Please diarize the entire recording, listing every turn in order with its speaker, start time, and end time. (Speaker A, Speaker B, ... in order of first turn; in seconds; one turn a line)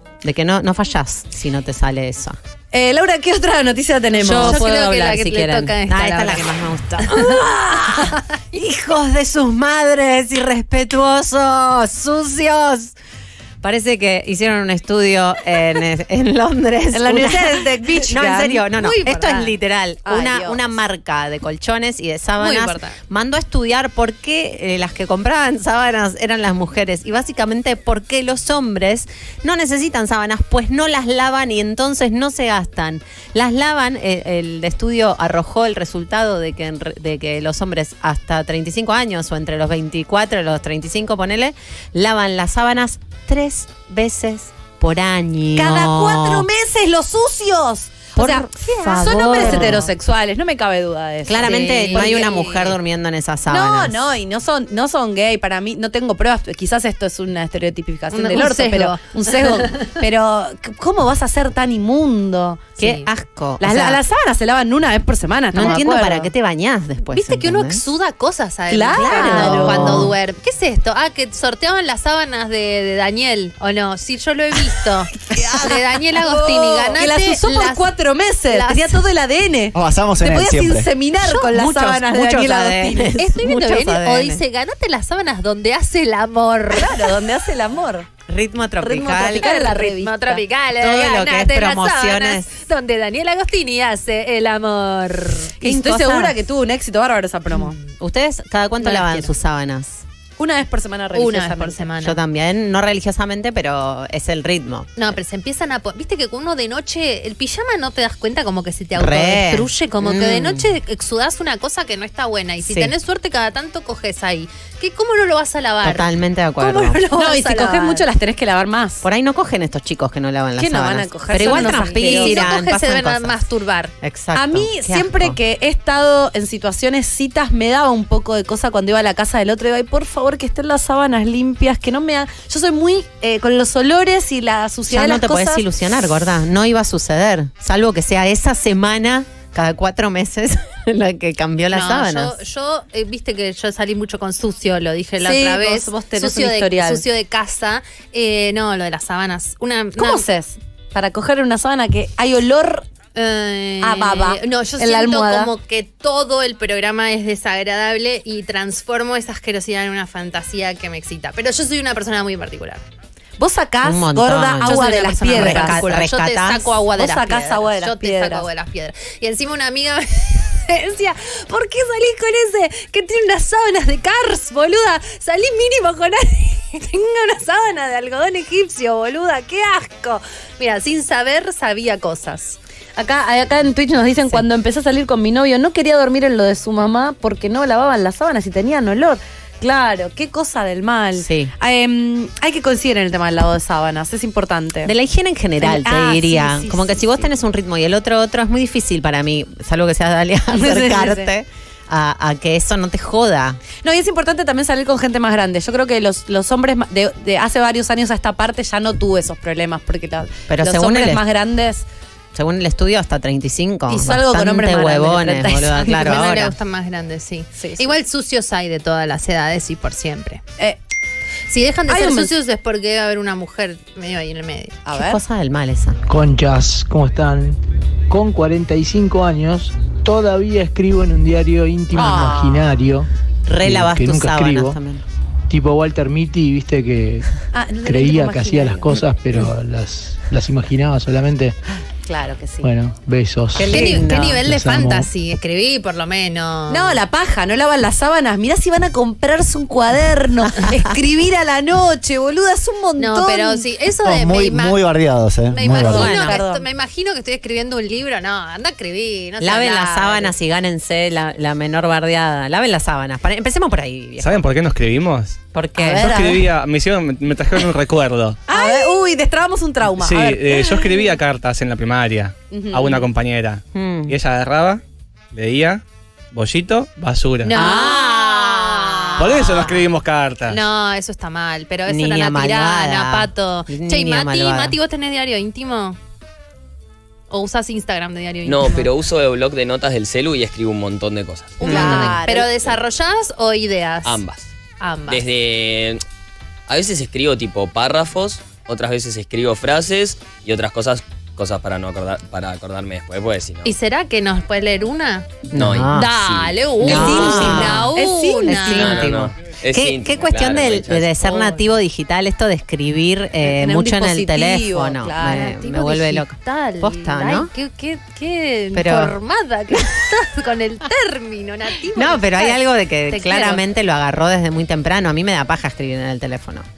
Speaker A: 0.2-2.4
Speaker B: 2.7-4.7
Speaker A: 4.2-7.4
Speaker C: 4.4-6.6
Speaker B: 7.1-8.1
Speaker A: 8.5-12.9
Speaker A: 13.6-46.5
Speaker B: 16.9-18.6
Speaker C: 18.7-19.6
Speaker B: 20.0-20.7
Speaker C: 22.4-23.0
Speaker B: 45.5-52.4
Speaker A: 48.1-49.9
Speaker C: 49.2-49.8
Speaker A: 51.3-54.0
Speaker C: 51.4-52.8
Speaker B: 53.5-62.6
Speaker C: 58.1-59.9
Speaker C: 62.8-63.1
Speaker A: 62.8-64.0
Speaker B: 63.6-66.3
Speaker A: 65.5-67.8
Speaker C: 67.1-77.9
Speaker B: 68.7-70.1
Speaker A: 68.9-70.1
Speaker B: 75.3-83.1
Speaker C: 78.5-79.0
Speaker D: 79.7-80.9
Speaker A: 81.4-84.4
Speaker C: 83.2-87.1
Speaker B: 86.7-88.1
Speaker A: 88.3-89.7
Speaker B: 88.8-90.4
Speaker C: 89.3-95.5
Speaker A: 90.8-92.5
Speaker B: 95.6-97.8
Speaker A: 95.6-96.3
Speaker C: 97.5-97.9
Speaker A: 98.0-100.0
Speaker C: 98.8-99.3
Speaker B: 100.4-101.8
Speaker C: 101.1-102.2
Speaker A: 102.0-104.9
Speaker C: 105.0-118.0
Speaker A: 109.0-110.7
Speaker A: 112.6-112.9
Speaker A: 115.8-117.0
Speaker B: 117.0-119.0
Speaker A: 119.0-123.4
Speaker B: 120.6-122.5
Speaker C: 121.4-123.9
Speaker A: 124.0-125.3
Speaker B: 124.3-135.6
Speaker A: 134.9-142.4
Speaker C: 141.7-150.2
Speaker B: 145.2-147.0
Speaker B: 150.0-152.8
Speaker C: 153.1-162.8
Speaker B: 153.8-155.5
Speaker B: 163.4-165.8
Speaker A: 163.8-166.7
Speaker C: 164.6-182.6
Speaker B: 167.0-168.5
Speaker B: 179.3-179.8
Speaker B: 183.0-194.9
Speaker A: 191.2-191.5
Speaker A: 194.8-203.6
Speaker B: 195.6-197.3
Speaker B: 200.5-201.3
Speaker B: 203.8-211.8
Speaker A: 210.5-211.2
Speaker A: 212.3-216.5
Speaker B: 213.9-216.1
Speaker C: 215.8-220.4
Speaker B: 217.6-217.9
Speaker C: 221.5-224.8
Speaker B: 221.9-222.3
Speaker B: 224.8-225.2
Speaker A: 224.9-226.0
Speaker E: 226.1-227.6
Speaker E: 228.1-233.1
Speaker A: 231.9-232.7
Speaker B: 231.9-232.4
Speaker A: 233.4-235.0
Speaker E: 233.6-234.8
Speaker E: 235.5-237.3
Speaker B: 237.5-239.0
Speaker E: 237.8-241.6
Speaker A: 242.1-242.7
Speaker E: 242.6-245.1
Speaker A: 243.5-244.4
Speaker C: 243.7-247.0
Speaker B: 246.7-253.6
Speaker C: 253.0-254.8
Speaker D: 254.0-256.1
Speaker C: 255.5-260.3
Speaker A: 255.7-256.4
Speaker B: 255.9-256.6
Speaker A: 259.4-264.5
Speaker F: 264.2-265.4
Speaker A: 265.5-266.1
Speaker B: 265.8-266.5
Speaker F: 265.9-268.4
Speaker B: 268.5-271.1
Speaker F: 270.0-274.8
Speaker B: 272.5-273.1
Speaker A: 273.7-274.1
Speaker F: 275.3-277.5
Speaker C: 277.4-279.8
Speaker A: 277.5-279.5
Speaker B: 277.5-278.1
Speaker F: 279.2-280.6
Speaker C: 280.5-286.0
Speaker A: 281.9-284.7
Speaker C: 287.3-288.9
Speaker G: 288.4-292.8
Speaker C: 291.6-294.2
Speaker B: 291.6-292.5
Speaker A: 291.6-292.2
Speaker G: 294.0-294.5
Speaker C: 294.8-295.2
Speaker G: 295.1-296.0
Speaker G: 296.7-303.7
Speaker C: 303.6-305.3
Speaker A: 305.5-306.2
Speaker G: 305.5-307.6
Speaker C: 305.9-309.1
Speaker A: 306.8-307.9
Speaker B: 306.8-309.0
Speaker A: 308.5-317.5
Speaker G: 308.7-311.2
Speaker C: 311.2-311.6
Speaker B: 313.4-316.1
Speaker C: 315.5-323.6
Speaker A: 318.7-319.1
Speaker A: 321.9-326.6